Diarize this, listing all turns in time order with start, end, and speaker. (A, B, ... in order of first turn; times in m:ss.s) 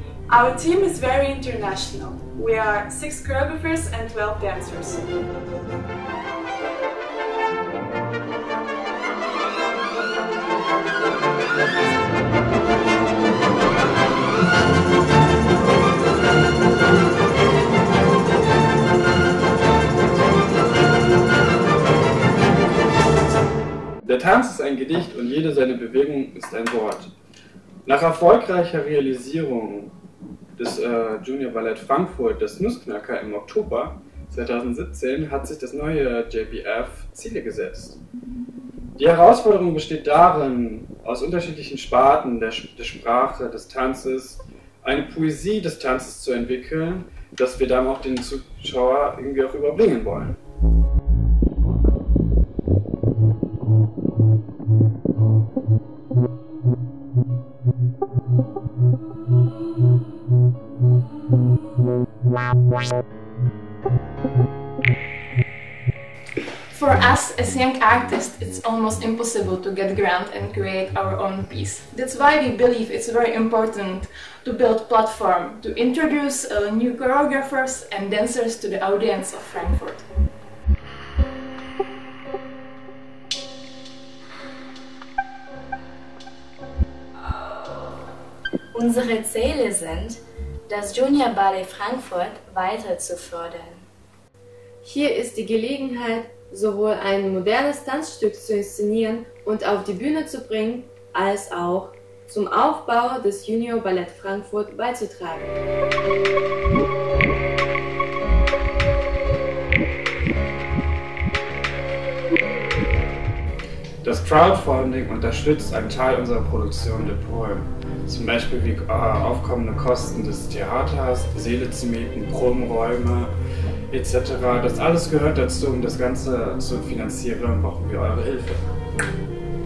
0:00.3-0:05.0 A
0:24.0-0:27.1 B
0:27.8-0:29.9 B
0:30.6-0:38.0 B
0:39.0-0:50.4 B
1:06.7-1:20.0 C
1:28.7-1:33.8 D
1:34.8-1:45.5 E
1:54.0-2:03.3 B
2:03.9-2:08.6 B